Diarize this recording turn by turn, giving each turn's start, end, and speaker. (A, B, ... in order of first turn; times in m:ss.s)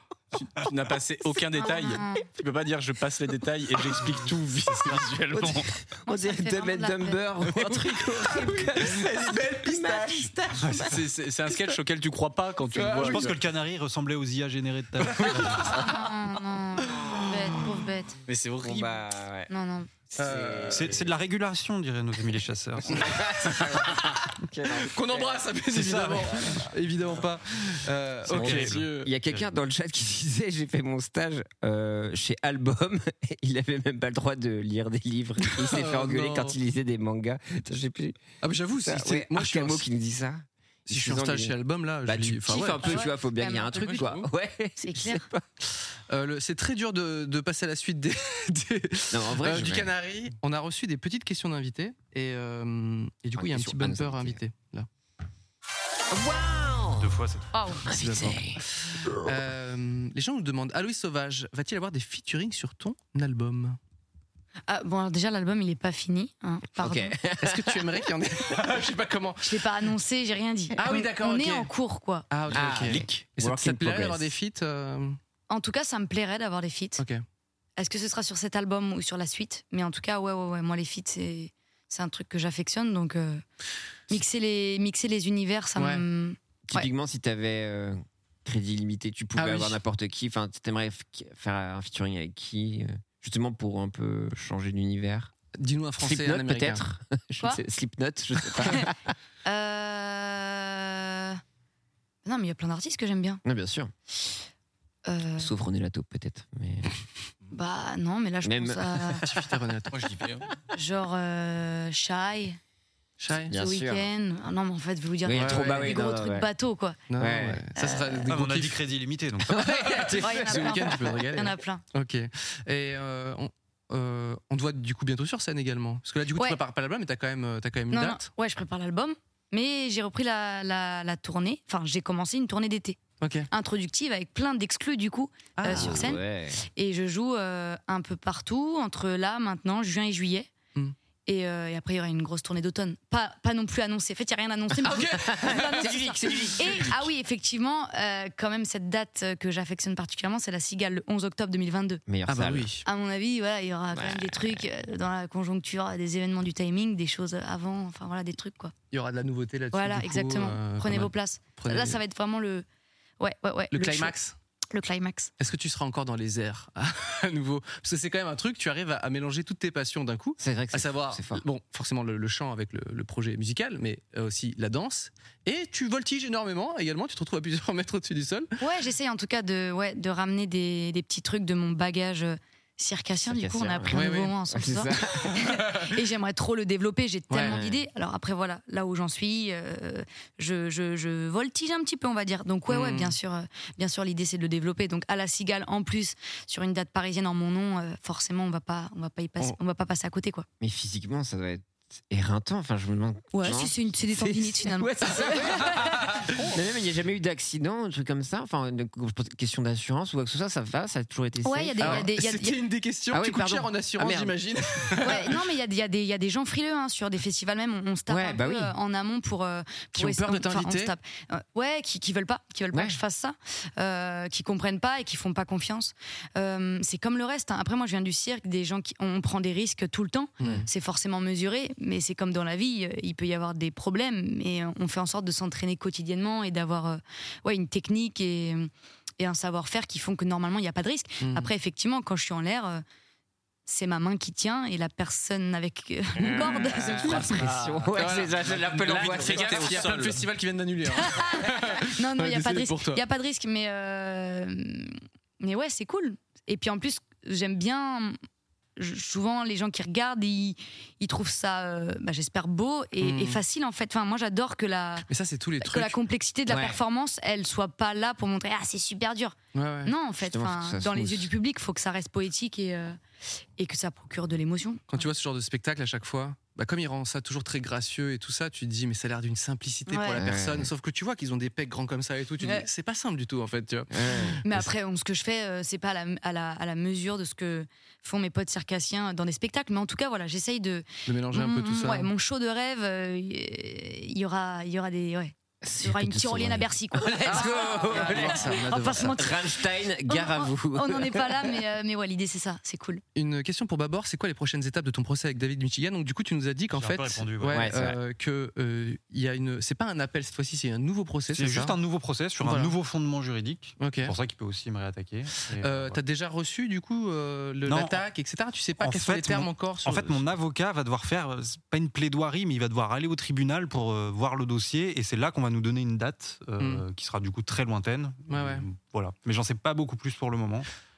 0:00.4-0:05.7 A
0:01.5-0:02.2 B
0:05.4-0:10.9 C
0:06.0-0:07.2 B
0:08.2-0:10.6 D
0:10.6-0:11.0 E
0:10.8-0:13.4 A
0:12.7-0:13.3 D
0:12.8-0:13.0 C
0:13.0-0:15.6 E
0:15.1-0:16.0 D
0:15.6-0:18.2 B
0:17.0-0:17.7 D
0:18.3-0:19.0 A
0:18.6-0:19.5 C
0:19.5-0:19.9 B
0:20.1-0:21.1 C
0:20.2-0:20.8 D
0:20.7-0:23.1 E
0:22.9-0:25.5 C
0:24.7-0:28.8 D
0:25.7-0:26.4 E
0:28.3-0:29.4 A
0:28.3-0:28.9 E
0:28.9-0:38.2 C
0:35.5-0:36.6 D
0:38.4-0:39.9 D
0:38.8-0:45.4 C
0:40.9-0:43.1 D
0:42.7-0:44.1 B
0:43.8-0:44.2 A
0:44.8-0:45.2 B
0:46.1-0:54.9 D
0:49.1-0:49.9 C
0:53.4-0:54.4 C
0:56.1-0:57.1 C
0:57.0-0:57.5 E
0:57.5-0:57.8 B
0:57.8-0:58.6 C
0:57.9-1:03.8 D
1:04.7-1:07.2 B
1:06.8-1:07.8 C
1:07.4-1:09.6 D
1:09.4-1:12.2 B
1:10.7-1:11.7 D
1:12.3-1:15.2 D
1:12.5-1:13.2 A
1:12.5-1:14.3 C
1:15.5-1:17.0 B
1:17.0-1:17.2 D
1:17.8-1:23.4 B
1:24.1-1:26.9 B
1:25.8-1:26.0 D
1:26.7-1:35.3 C
1:29.4-1:29.8 D
1:35.6-1:36.8 D
1:36.0-1:38.9 C
1:39.4-1:41.4 B
1:42.2-1:43.4 B
1:43.4-1:43.9 C
1:45.0-1:45.5 B
1:45.4-1:46.9 C
1:47.5-1:49.2 B
1:48.4-1:49.2 C
1:49.2-1:49.9 D
1:49.9-1:50.5 A
1:50.7-1:52.6 B
1:53.2-1:53.5 D
1:53.5-1:54.1 C
1:53.5-1:57.0 B
1:55.2-1:56.5 C
1:55.3-1:55.9 D
1:57.1-1:58.8 D
1:57.2-1:57.6 C
1:57.7-1:58.3 B
1:58.3-1:59.6 E
1:59.5-2:08.3 D
1:59.5-2:01.0 C
2:00.2-2:01.8 B
2:06.3-2:06.6 B
2:07.9-2:13.0 B
2:13.2-2:13.5 D
2:13.5-2:20.5 B
2:15.6-2:16.1 D
2:15.7-2:16.6 C
2:21.2-2:32.0 B
2:24.8-2:26.8 D
2:25.3-2:27.1 C
2:32.0-2:32.7 C
2:32.3-2:32.8 D
2:32.8-2:38.7 B
2:33.9-2:34.6 C
2:38.9-2:42.0 D
2:39.7-2:42.6 B
2:43.2-2:44.1 B
2:43.7-2:44.4 D
2:44.7-2:45.3 B
2:45.4-2:58.5 D
2:50.4-2:51.4 C
2:58.6-3:20.4 B
3:03.2-3:05.4 C
3:03.9-3:04.4 D
3:07.3-3:07.6 D
3:07.4-3:07.8 C
3:12.7-3:13.2 D
3:20.6-3:26.0 C
3:23.3-3:26.2 B
3:26.3-3:26.5 D
3:26.5-3:32.1 C
3:31.4-3:32.6 B
3:31.8-3:35.4 D
3:33.1-3:34.4 C
3:35.0-4:02.8 B
3:38.1-3:38.7 C
3:39.9-3:40.9 D
3:42.7-3:43.0 C
3:50.4-3:50.7 D
4:01.2-4:01.5 D
4:03.6-4:07.5 B
4:06.2-4:10.0 C
4:07.3-4:10.2 A
4:07.9-4:13.0 D
4:10.9-4:18.2 B
4:18.8-4:25.0 B
4:23.0-4:23.4 D
4:25.1-4:26.0 D
4:25.6-4:33.0 B
4:26.5-4:26.8 C
4:29.5-4:29.9 D
4:30.2-4:31.3 C
4:33.6-4:35.0 B
4:34.9-4:44.4 D
4:39.9-4:40.2 B
4:40.2-4:40.7 C
4:42.4-4:42.7 B
4:43.9-4:44.7 C
4:44.4-5:03.0 B
4:51.0-4:52.1 D
4:55.6-5:01.5 C
4:57.2-4:59.2 D
5:03.1-5:11.8 D
5:06.7-5:07.7 E
5:07.5-5:08.0 C
5:11.3-5:16.0 E
5:12.4-5:12.7 D
5:13.8-5:14.1 D
5:15.6-5:20.2 D
5:17.6-5:18.0 E
5:18.8-5:30.7 E
5:26.6-5:26.8 D
5:28.3-5:28.6 D